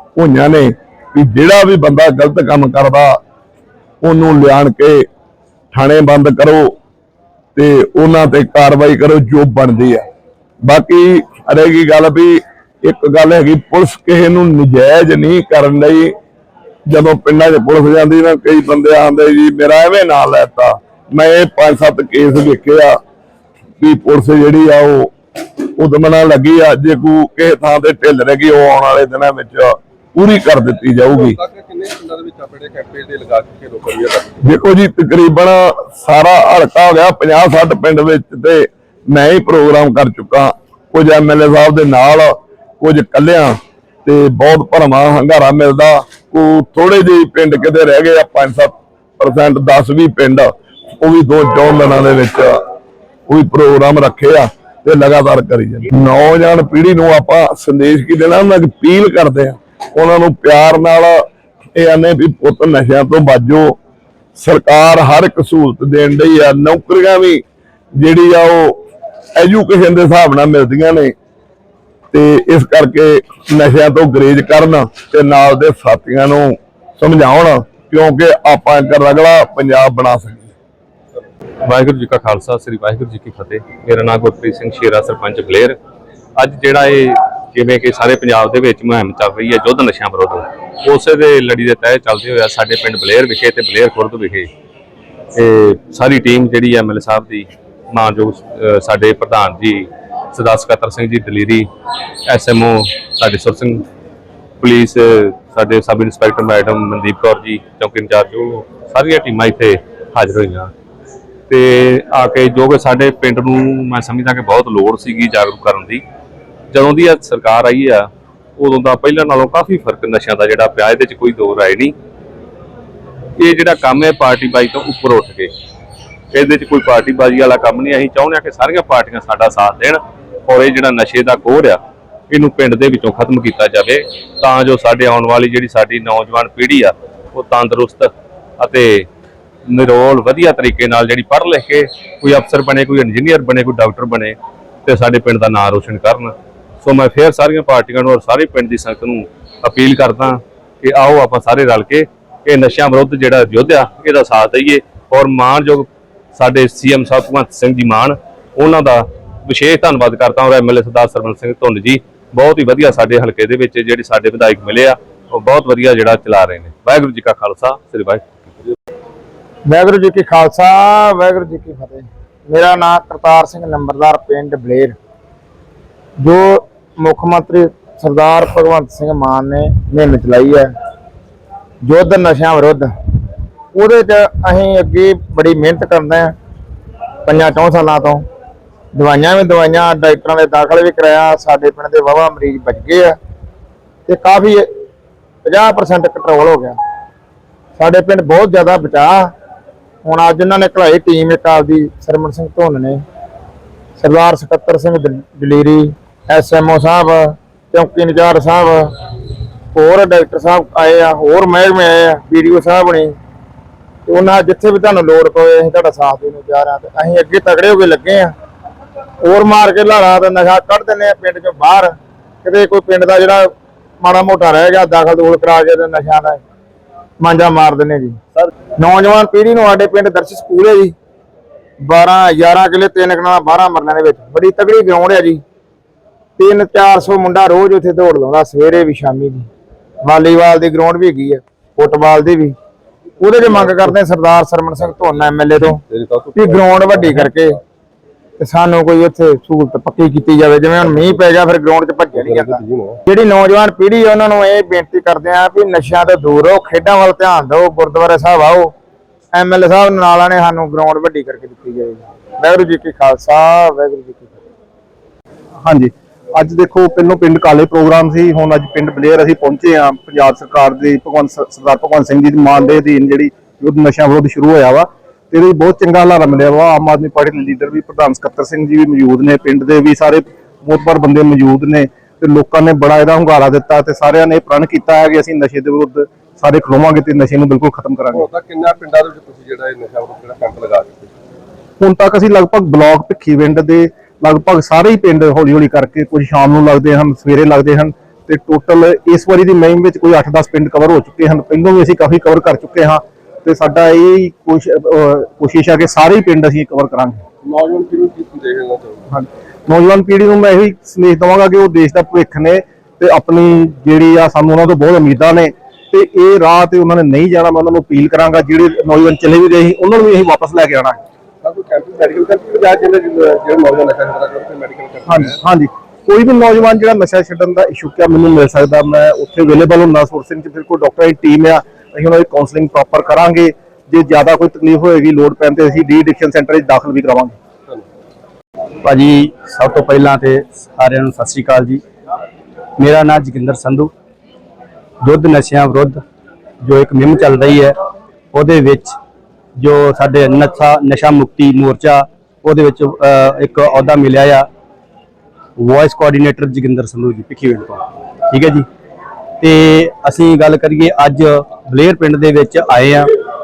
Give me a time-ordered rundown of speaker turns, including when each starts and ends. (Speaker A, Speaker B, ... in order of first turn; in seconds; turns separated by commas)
Speaker A: 0.2-3.2, Speaker A: 4.0-5.0, Speaker A: 5.7-6.7, Speaker A: 7.6-10.0, Speaker A: 10.7-16.1, Speaker A: 16.9-23.0, Speaker A: 23.8-25.1, Speaker A: 25.8-31.4, Speaker B: 31.0-34.4, Speaker A: 34.5-52.6, Speaker A: 53.3-61.2, Speaker A: 61.8-63.8, Speaker A: 64.4-67.4, Speaker A: 68.0-68.8, Speaker A: 69.4-71.1, Speaker A: 72.1-80.5, Speaker C: 81.7-85.8, Speaker C: 86.4-94.5, Speaker C: 95.4-101.7, Speaker C: 102.3-103.8, Speaker C: 104.6-110.7, Speaker C: 111.5-116.0, Speaker C: 116.7-121.9, Speaker C: 123.4-125.5, Speaker C: 126.3-139.1, Speaker C: 139.7-168.2, Speaker D: 169.7-175.0, Speaker D: 176.2-180.7, Speaker D: 181.8-182.9, Speaker D: 183.7-186.3, Speaker D: 187.2-188.2, Speaker D: 188.9-193.2, Speaker D: 194.1-194.7, Speaker D: 195.4-196.8, Speaker D: 197.8-199.3, Speaker D: 200.0-203.0, Speaker D: 204.0-208.9, Speaker D: 209.7-213.2, Speaker D: 214.1-218.3, Speaker D: 219.2-226.4, Speaker D: 227.2-228.2, Speaker D: 228.8-230.9, Speaker D: 231.8-235.4, Speaker D: 236.4-239.5, Speaker D: 240.0-242.6, Speaker D: 243.2-245.8, Speaker B: 243.5-243.9, Speaker B: 245.6-247.6, Speaker D: 246.3-247.6, Speaker D: 248.4-258.7, Speaker B: 252.1-253.0, Speaker D: 259.3-264.4, Speaker E: 265.6-288.3, Speaker B: 288.1-291.1, Speaker E: 291.8-307.2, Speaker B: 307.4-309.1, Speaker E: 309.1-321.0, Speaker B: 321.4-325.4, Speaker E: 325.1-337.4, Speaker F: 338.8-341.8, Speaker F: 342.8-343.9, Speaker F: 345.0-346.0, Speaker F: 346.6-347.8, Speaker F: 348.3-348.9, Speaker F: 349.6-354.5, Speaker F: 355.6-358.7, Speaker F: 359.4-363.1